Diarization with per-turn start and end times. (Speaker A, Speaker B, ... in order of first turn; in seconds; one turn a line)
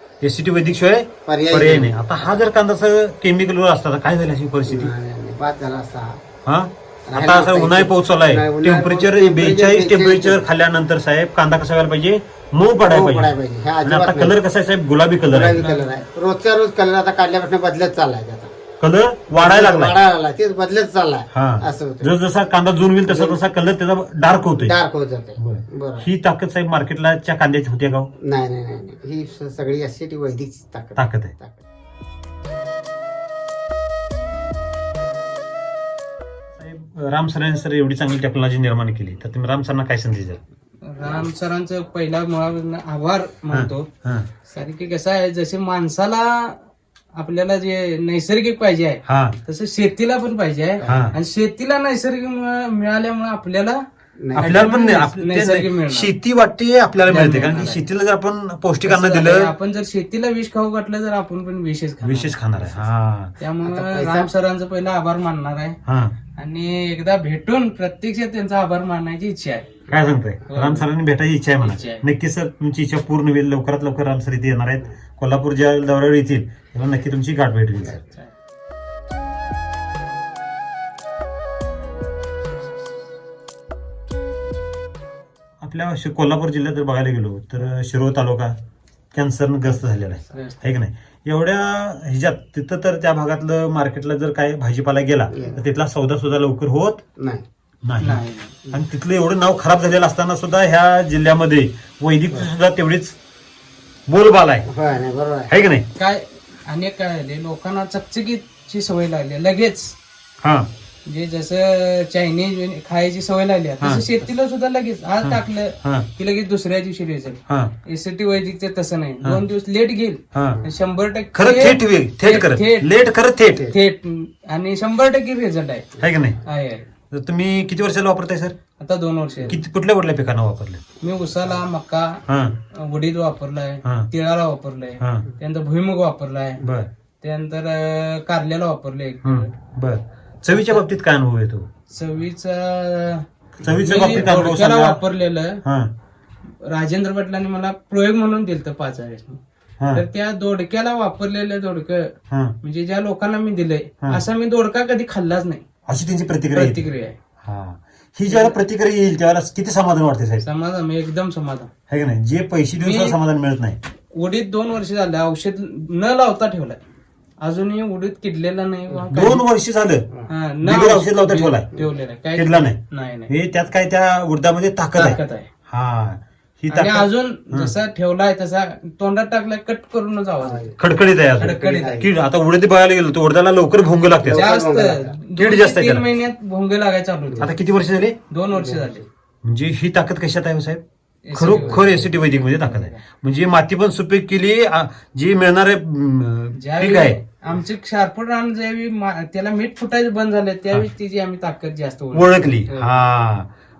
Speaker A: 0.2-4.9
Speaker B: 1.2-2.4
Speaker B: 4.7-6.2
Speaker A: 6.4-15.6
Speaker B: 7.1-10.4
Speaker B: 12.8-14.3
Speaker B: 15.3-18.5
Speaker C: 15.5-16.1
Speaker A: 18.8-20.0
Speaker B: 19.3-22.1
Speaker A: 21.3-24.7
Speaker B: 23.1-23.4
Speaker B: 24.6-26.1
Speaker A: 25.4-28.1
Speaker B: 28.2-31.6
Speaker A: 30.9-31.3
Speaker A: 36.6-40.4
Speaker C: 40.8-43.9
Speaker A: 43.5-44.3
Speaker C: 44.5-46.6
Speaker C: 47.2-53.8
Speaker A: 49.0-49.4
Speaker B: 50.8-51.1
Speaker A: 50.8-51.1
Speaker B: 54.2-54.7
Speaker A: 54.4-59.5
Speaker C: 54.4-56.1
Speaker C: 57.0-57.8
Speaker C: 58.8-62.9
Speaker A: 62.0-63.3
Speaker C: 63.4-65.8
Speaker B: 63.6-64.3
Speaker A: 65.8-66.1
Speaker C: 66.4-69.7
Speaker A: 69.9-78.0
Speaker C: 70.5-70.8
Speaker C: 71.6-72.0
Speaker A: 85.6-88.5
Speaker A: 89.1-97.0
Speaker C: 90.3-90.8
Speaker B: 95.3-95.6
Speaker B: 97.2-97.4
Speaker A: 97.8-103.2
Speaker C: 98.0-98.5
Speaker A: 104.1-104.7
Speaker B: 104.7-105.5
Speaker A: 105.5-105.8
Speaker C: 106.0-110.0
Speaker A: 110.4-110.7
Speaker C: 111.1-122.9
Speaker A: 115.2-116.0
Speaker A: 120.3-120.6
Speaker A: 121.3-123.7
Speaker C: 123.6-126.9
Speaker A: 126.0-126.4
Speaker A: 127.1-128.5
Speaker C: 128.8-129.6
Speaker A: 129.5-130.8
Speaker C: 131.0-132.2
Speaker A: 132.3-132.6
Speaker C: 132.7-136.6
Speaker A: 135.0-135.2
Speaker A: 136.6-136.9
Speaker C: 137.2-139.5
Speaker A: 139.2-141.7
Speaker C: 140.5-140.8
Speaker C: 141.9-145.6
Speaker A: 143.6-145.0
Speaker A: 145.6-145.9
Speaker C: 146.6-149.4
Speaker C: 149.9-155.6
Speaker A: 155.9-156.9
Speaker C: 156.5-157.2
Speaker A: 157.4-160.4
Speaker C: 158.3-158.6
Speaker C: 160.4-161.7
Speaker A: 161.9-163.8
Speaker C: 162.8-163.2
Speaker C: 164.1-166.8
Speaker C: 167.4-169.4
Speaker A: 169.1-170.0
Speaker C: 170.3-173.3
Speaker A: 170.6-171.7
Speaker A: 172.3-172.8
Speaker A: 173.3-177.7
Speaker C: 174.9-175.5
Speaker C: 176.7-180.7
Speaker B: 180.4-180.8
Speaker A: 180.8-184.5
Speaker C: 181.4-182.0
Speaker B: 181.4-182.1
Speaker B: 184.2-185.2
Speaker C: 184.3-187.5
Speaker A: 185.3-186.0
Speaker B: 187.3-187.5
Speaker A: 187.4-188.2
Speaker C: 188.3-189.0
Speaker B: 188.5-189.0
Speaker A: 189.4-190.8
Speaker C: 191.2-192.2
Speaker A: 191.3-197.2
Speaker B: 191.4-192.9
Speaker C: 196.6-203.0
Speaker A: 202.1-203.5